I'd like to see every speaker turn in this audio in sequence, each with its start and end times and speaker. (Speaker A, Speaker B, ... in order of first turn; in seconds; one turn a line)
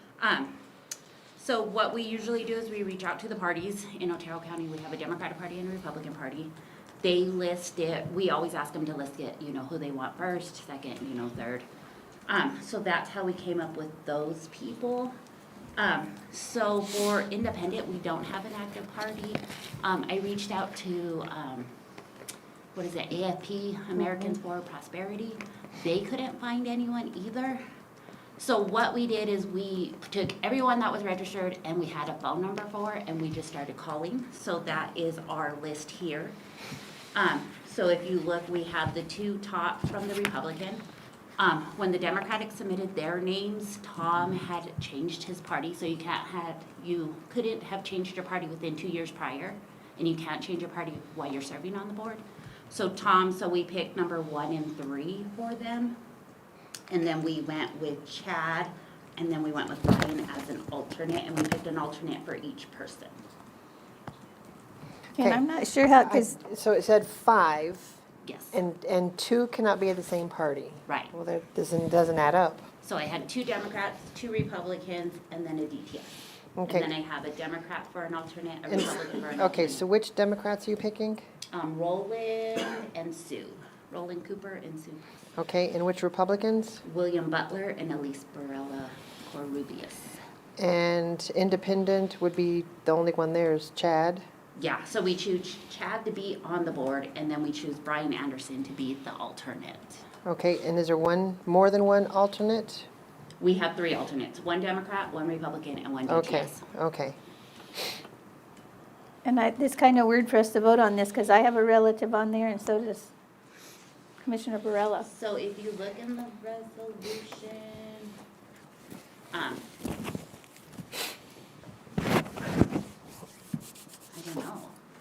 Speaker A: 0.2-0.6
Speaker A: 1.4-11.7
Speaker A: 12.3-15.2
Speaker A: 15.8-21.7
Speaker A: 22.8-27.6
Speaker A: 28.4-36.4
Speaker A: 37.1-40.8
Speaker A: 41.4-56.0
Speaker A: 56.9-63.2
Speaker B: 65.2-66.3
Speaker C: 65.2-68.0
Speaker A: 68.2-68.6
Speaker C: 68.5-72.7
Speaker A: 70.9-71.1
Speaker A: 72.8-79.9
Speaker C: 76.6-76.9
Speaker C: 78.7-81.2
Speaker A: 81.5-85.3
Speaker C: 85.4-86.8
Speaker A: 86.8-90.2
Speaker C: 90.6-94.2
Speaker A: 94.6-100.0
Speaker C: 100.2-102.9
Speaker A: 103.4-106.6
Speaker C: 106.1-107.2
Speaker B: 109.2-113.1
Speaker B: 114.2-115.1
Speaker A: 115.0-118.1
Speaker A: 119.3-119.7
Speaker A: 124.1-124.8